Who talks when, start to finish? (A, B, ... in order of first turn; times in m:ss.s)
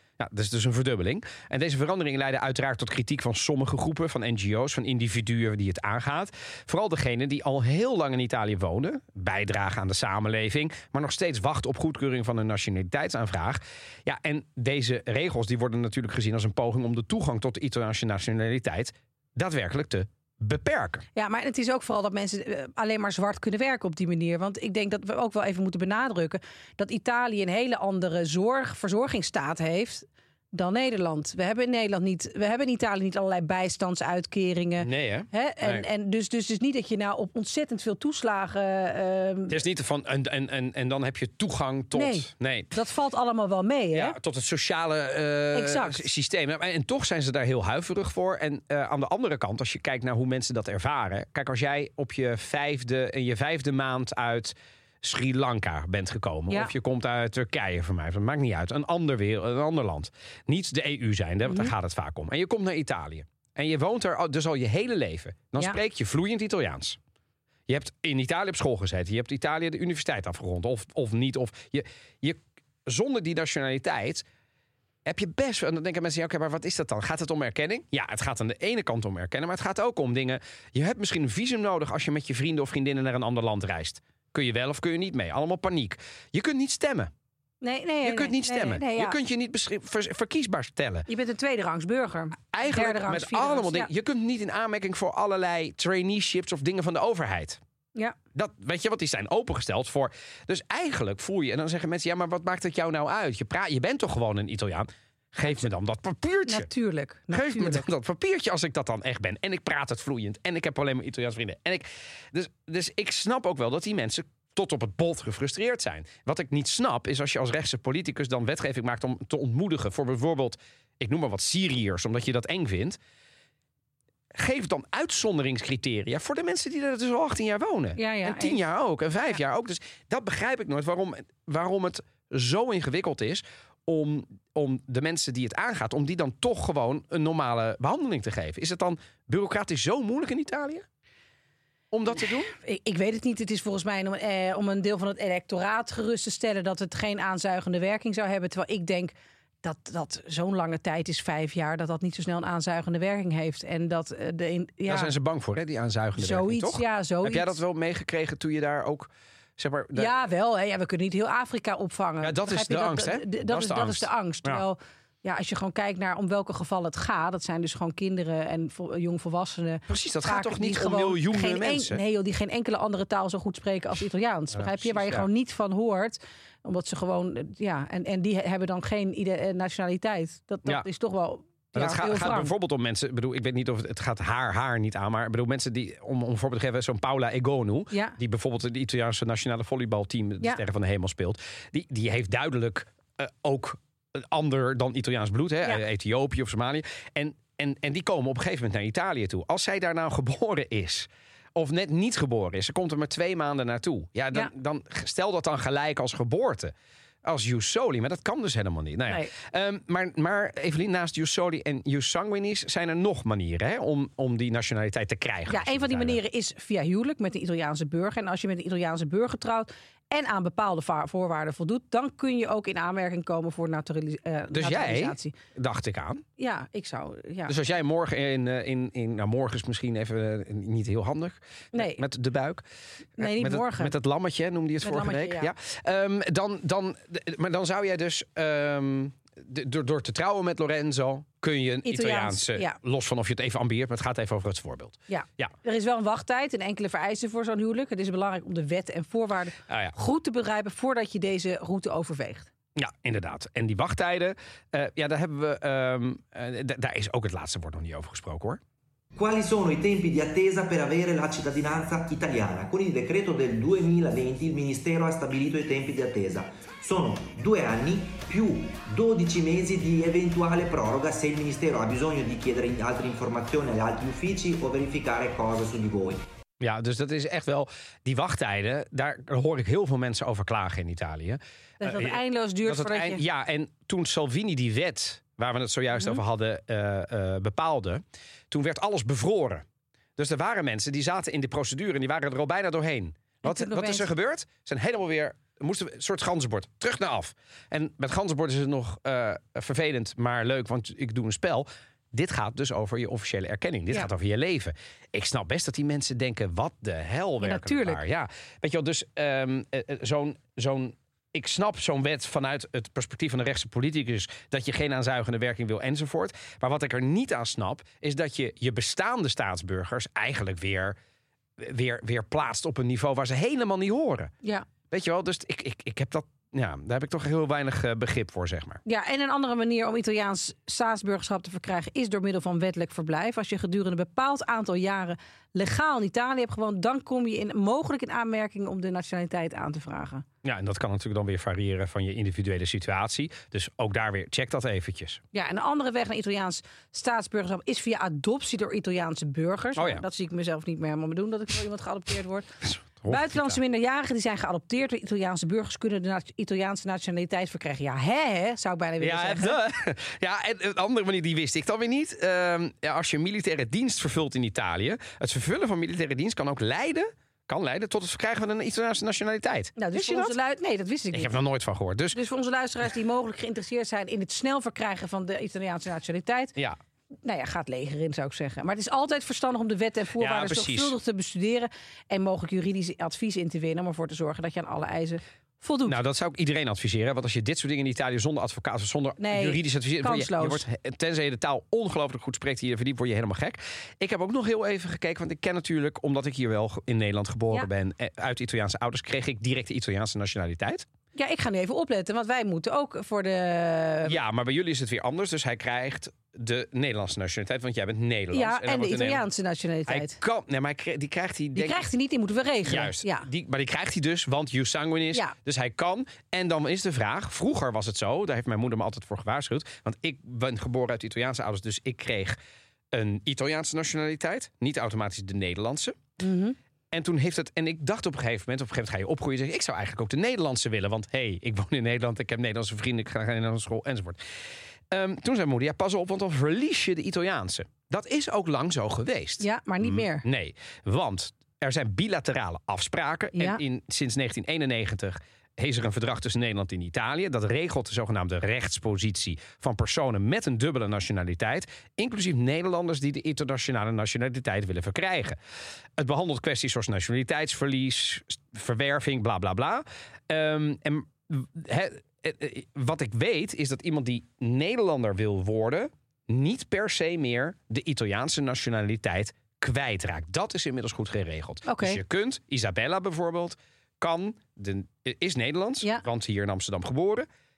0:00.2-0:21.0 A
0:21.2-0:39.6 B
0:34.8-0:35.9 A
0:39.5-0:42.7 A
0:41.9-0:44.2 B
0:43.9-1:07.0 A
0:45.5-0:46.1 B
1:01.5-1:01.7 B
1:07.7-1:14.2 A
1:15.0-1:27.1 A
1:27.6-1:29.2 B
1:28.0-1:31.1 A
1:31.1-1:33.9 B
1:32.5-1:37.6 A
1:38.3-1:46.7 A
1:46.5-1:47.8 B
1:47.3-2:03.0 A
2:04.4-2:20.8 A
2:08.0-2:08.6 B
2:21.9-2:22.5 A
2:22.5-2:35.1 B
2:34.9-2:40.1 A
2:36.2-2:37.6 B
2:40.0-3:02.5 B
2:42.2-2:44.6 A
2:49.9-2:52.0 A
2:54.5-2:55.3 A
3:01.8-3:26.7 A
3:27.2-3:36.2 A
3:35.5-3:45.3 B
3:44.5-3:46.2 A
3:46.4-3:47.5 B
3:47.5-3:52.6 A
3:51.7-3:52.0 B
3:53.2-4:05.5 A
3:53.2-3:53.9 B
3:54.8-3:55.5 B
4:01.9-4:02.8 B
4:05.1-4:12.5 B
4:09.7-4:10.0 A
4:12.8-4:18.6 A
4:19.2-4:36.2 C
4:36.6-4:49.6 A
4:41.8-4:43.2 B
4:50.2-5:21.0 A
4:53.4-4:54.1 B
5:07.4-5:08.0 B
5:21.6-5:24.3 A
5:24.9-5:28.8 A
5:28.9-5:40.2 B
5:40.4-5:45.2 A
5:45.3-5:52.5 B
5:49.8-5:50.0 A
5:52.6-5:53.6 A
5:53.1-5:59.6 B
5:59.0-6:10.4 A
6:09.8-6:11.3 B
6:11.1-6:12.2 A
6:12.1-6:16.5 B
6:17.2-6:26.0 B
6:20.2-6:21.0 A
6:25.9-6:40.9 A
6:29.2-6:30.6 B
6:41.2-6:44.2 B
6:44.1-6:49.2 A
6:48.3-6:50.2 B
6:49.9-6:51.9 A
6:51.6-6:53.3 B
6:52.6-7:02.4 A
7:02.9-7:06.0 A
7:06.2-7:06.6 B
7:06.9-7:14.2 A
7:14.9-7:35.4 A
7:19.4-7:20.2 B
7:36.0-7:57.3 A
7:51.7-7:52.0 B